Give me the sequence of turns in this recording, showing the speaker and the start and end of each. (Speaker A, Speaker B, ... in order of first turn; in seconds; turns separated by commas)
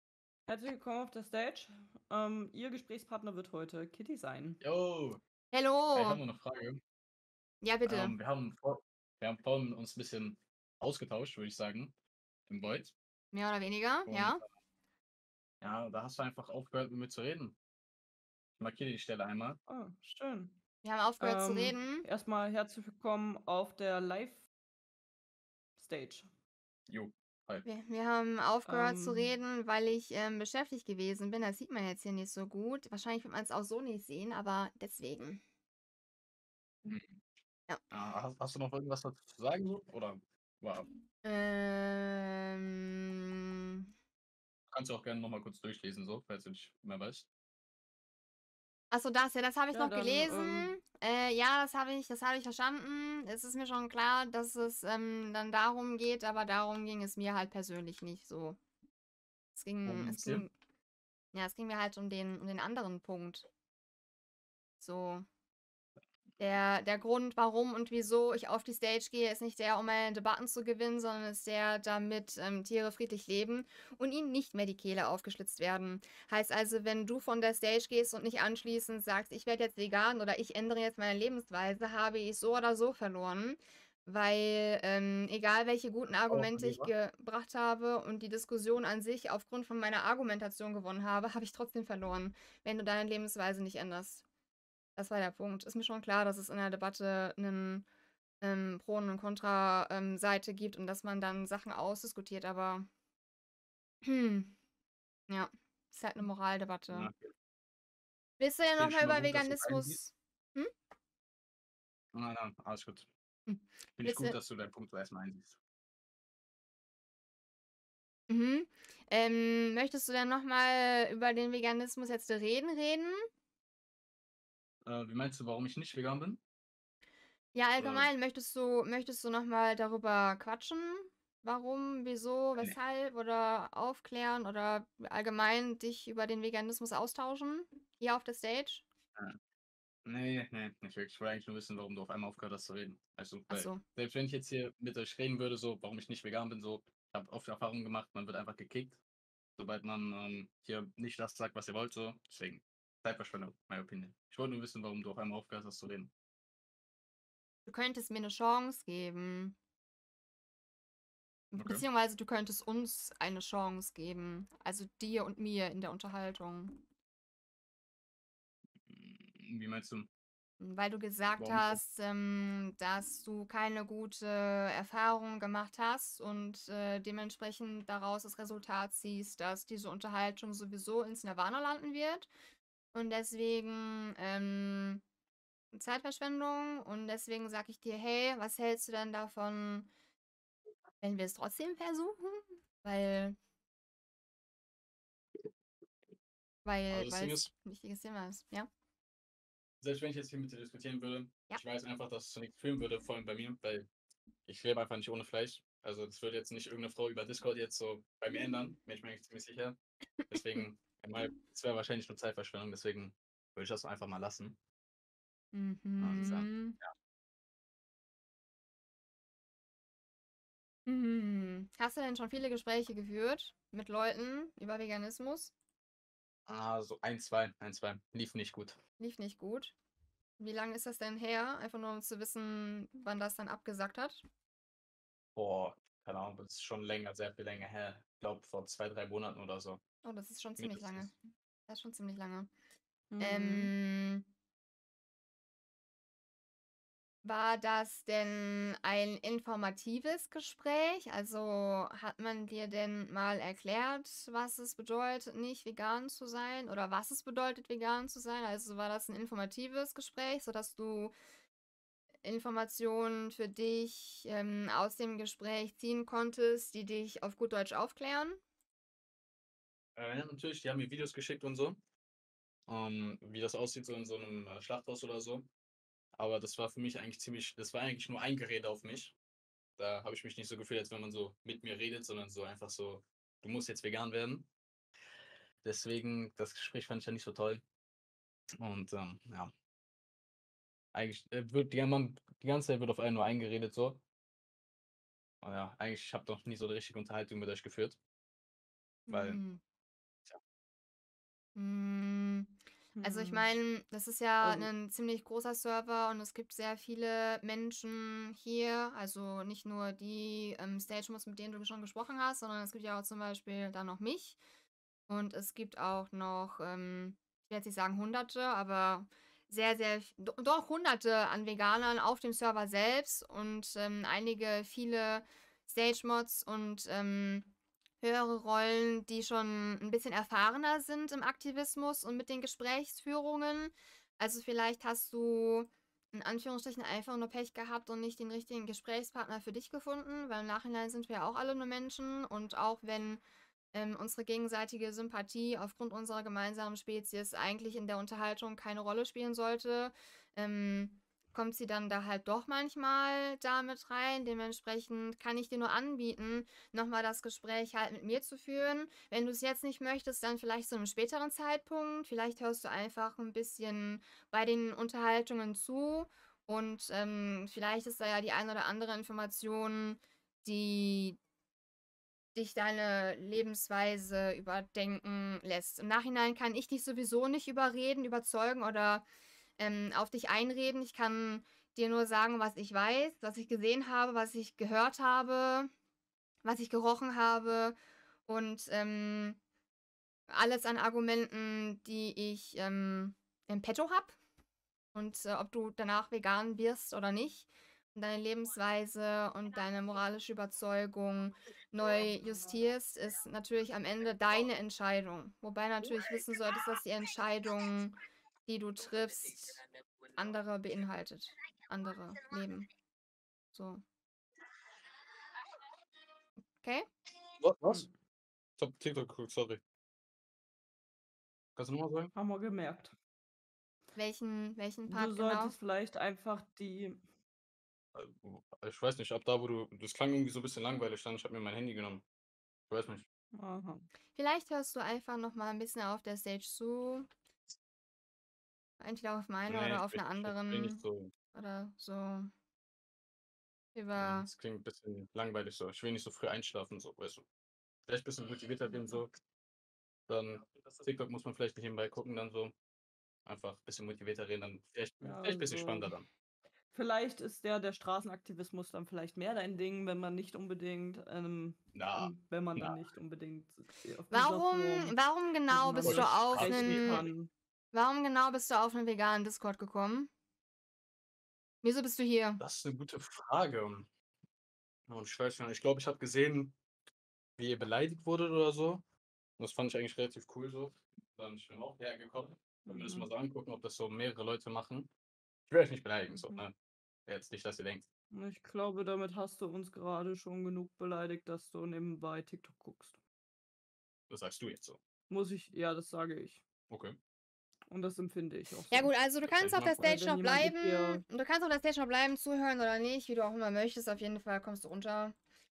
Speaker A: 0.5-4.6, Speaker B: 4.6-5.2, Speaker C: 5.5-6.2, Speaker B: 5.9-6.8, Speaker C: 7.6-8.2, Speaker B: 7.8-11.9, Speaker B: 12.5-12.9, Speaker C: 13.3-14.4, Speaker B: 14.1-14.4, Speaker B: 15.6-17.6, Speaker B: 18.6-19.6, Speaker A: 19.7-20.6, Speaker C: 20.8-22.1, Speaker A: 21.2-24.5, Speaker A: 25.8-26.3, Speaker B: 26.9-27.7, Speaker C: 27.6-35.4, Speaker A: 28.6-29.4, Speaker B: 36.9-37.2, Speaker B: 37.9-40.9, Speaker C: 41.2-43.9, Speaker B: 44.7-47.3, Speaker C: 48.9-58.6, Speaker A: 49.7-50.7, Speaker C: 59.6-60.5, Speaker B: 59.9-60.5, Speaker C: 61.3-63.5, Speaker C: 64.8-65.2, Speaker C: 66.4-94.2, Speaker B: 86.3-86.9, Speaker C: 95.0-97.9, Speaker C: 98.4-102.9, Speaker C: 104.0-104.5, Speaker C: 105.3-107.1, Speaker B: 106.9-107.3, Speaker C: 108.4-110.7, Speaker B: 108.8-110.0, Speaker B: 112.1-113.1, Speaker C: 113.5-114.4, Speaker B: 114.0-115.6, Speaker C: 118.3-123.2, Speaker B: 124.8-126.4, Speaker C: 127.5-138.8, Speaker B: 127.8-128.1, Speaker B: 140.1-149.0, Speaker C: 143.5-143.8, Speaker B: 149.6-156.1, Speaker C: 157.7-159.6, Speaker C: 161.5-166.8, Speaker B: 161.6-161.8, Speaker B: 168.9-170.1, Speaker C: 170.6-182.3, Speaker B: 171.4-171.8, Speaker C: 182.9-185.0, Speaker C: 185.7-189.9, Speaker C: 191.0-193.4, Speaker C: 196.7-198.7, Speaker B: 196.9-197.5, Speaker B: 199.8-203.9, Speaker B: 204.5-209.8, Speaker C: 210.2-210.7, Speaker B: 210.3-214.6, Speaker C: 215.5-216.8, Speaker B: 216.0-216.9, Speaker C: 220.9-225.5, Speaker B: 226.5-228.8, Speaker C: 229.0-229.7, Speaker C: 230.4-234.2, Speaker B: 235.3-239.8, Speaker C: 240.0-241.2, Speaker B: 240.6-241.1, Speaker C: 241.7-242.5, Speaker A: 243.1-243.7, Speaker C: 243.2-244.3, Speaker C: 247.2-261.1, Speaker C: 262.2-268.4, Speaker B: 270.0-271.8, Speaker B: 272.7-275.5, Speaker B: 276.2-279.1, Speaker B: 279.8-284.5, Speaker B: 285.6-287.6, Speaker B: 288.6-289.5, Speaker B: 290.9-294.0, Speaker B: 295.4-298.0, Speaker C: 299.1-299.6, Speaker B: 299.1-299.4, Speaker C: 301.6-314.4, Speaker A: 302.9-303.5, Speaker C: 315.1-371.2, Speaker C: 372.4-379.1, Speaker C: 379.6-385.7, Speaker C: 386.4-387.8, Speaker C: 388.3-389.4, Speaker C: 390.3-394.2, Speaker C: 394.9-409.6, Speaker C: 410.1-412.7, Speaker C: 413.5-413.8, Speaker B: 417.4-417.9, Speaker A: 417.7-417.9, Speaker B: 418.6-419.6, Speaker B: 421.6-422.1, Speaker A: 422.1-422.9, Speaker C: 424.0-425.6, Speaker A: 424.9-427.0, Speaker B: 427.9-432.1, Speaker B: 432.7-433.1, Speaker A: 433.3-433.9, Speaker C: 434.1-437.1, Speaker C: 438.8-442.3, Speaker B: 439.5-441.1, Speaker C: 443.8-444.3, Speaker B: 444.0-447.2, Speaker B: 447.9-449.1, Speaker B: 450.1-452.5, Speaker B: 453.3-456.1, Speaker A: 455.0-455.9, Speaker A: 456.7-465.0, Speaker B: 461.8-462.8, Speaker C: 464.1-467.1, Speaker A: 465.5-467.3, Speaker B: 465.8-467.1, Speaker C: 467.7-470.1, Speaker C: 471.6-472.4, Speaker B: 472.4-473.9, Speaker B: 474.9-476.6, Speaker B: 477.4-478.8, Speaker B: 479.4-484.9, Speaker A: 482.6-483.1, Speaker B: 485.5-486.5, Speaker A: 486.1-486.4, Speaker B: 487.1-487.9, Speaker A: 488.1-493.0, Speaker B: 494.1-494.8, Speaker A: 495.1-496.4, Speaker B: 496.7-497.0, Speaker A: 497.7-498.9, Speaker C: 498.7-505.2, Speaker B: 499.2-500.0, Speaker A: 499.8-501.0